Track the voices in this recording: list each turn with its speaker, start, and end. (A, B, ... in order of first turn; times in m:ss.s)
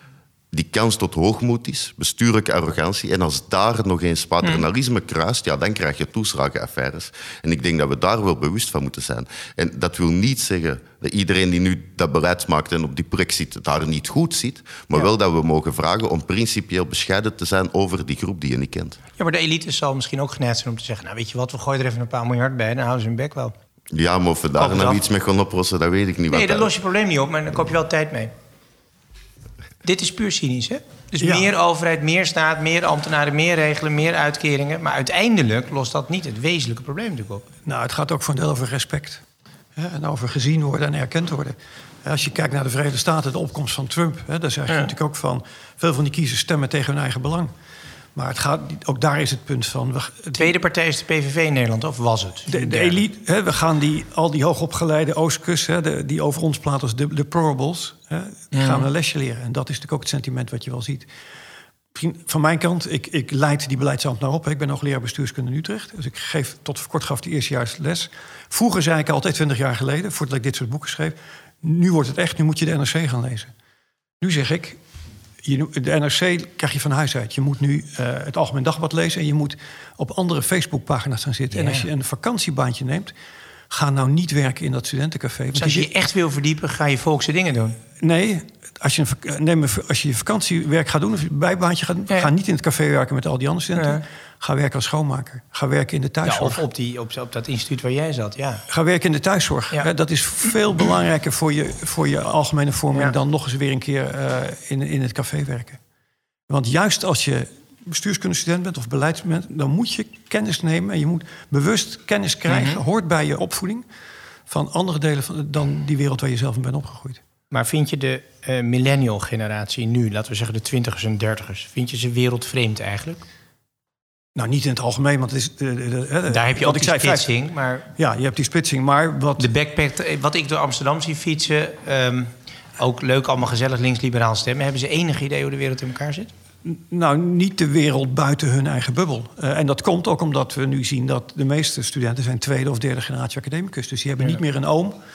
0:00.5-0:19.0 A
0:19.2-0:23.5 B
0:23.9-0:26.7 A
0:24.6-0:25.0 C
0:26.3-0:28.3 B
0:29.8-0:37.4 B
0:31.2-0:31.5 C
0:37.6-0:39.2 C
0:39.8-0:47.5 C
0:48.1-0:50.5 C
0:50.3-0:53.0 B
0:52.5-1:01.1 C
0:58.5-0:58.9 B
1:01.9-1:13.5 C
1:14.2-1:14.8 C
1:15.4-1:23.1 C
1:21.5-1:21.9 B
1:23.7-1:25.9 C
1:25.6-1:27.8 B
1:28.0-1:36.6 C
1:33.8-1:34.0 B
1:36.2-1:38.6 B
1:38.7-1:45.8 C
1:46.5-1:53.8 C
1:52.5-1:52.8 B
1:54.5-1:57.2 C
1:57.5-2:03.2 B
2:04.3-2:07.3 C
2:06.3-2:07.9 B
2:08.0-2:09.5 C
2:09.4-2:16.3 B
2:16.6-2:25.0 C